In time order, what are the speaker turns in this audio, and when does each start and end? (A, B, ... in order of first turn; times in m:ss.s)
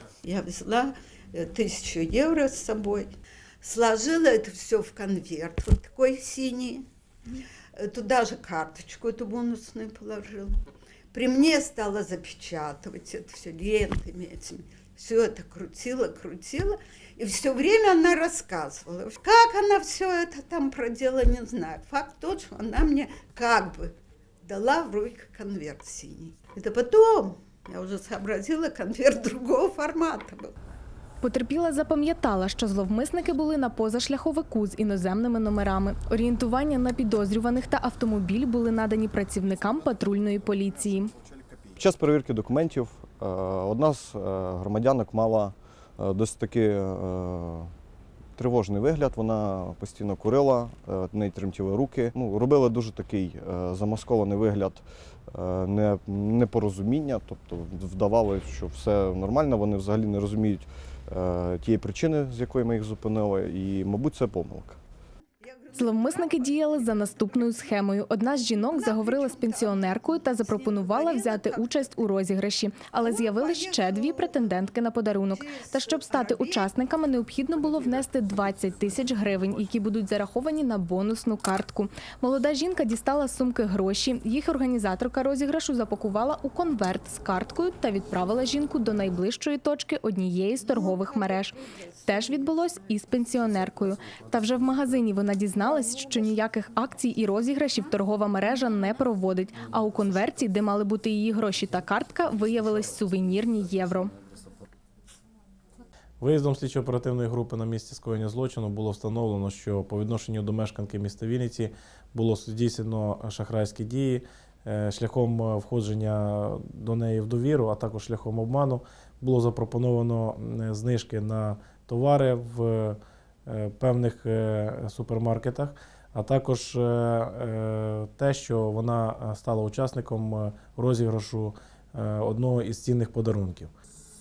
0:00.2-0:06.8 A
0:07.8-0:30.5 A
0:31.2-0:41.1 B
0:41.7-0:47.7 C
0:48.4-1:04.8 C
1:05.4-1:07.8 A
1:05.7-1:31.5 B
1:08.5-1:11.8 A
1:13.0-1:14.6 A
1:15.3-1:16.7 A
1:30.6-1:32.5 A
1:32.1-1:44.1 B
1:46.2-2:13.7 D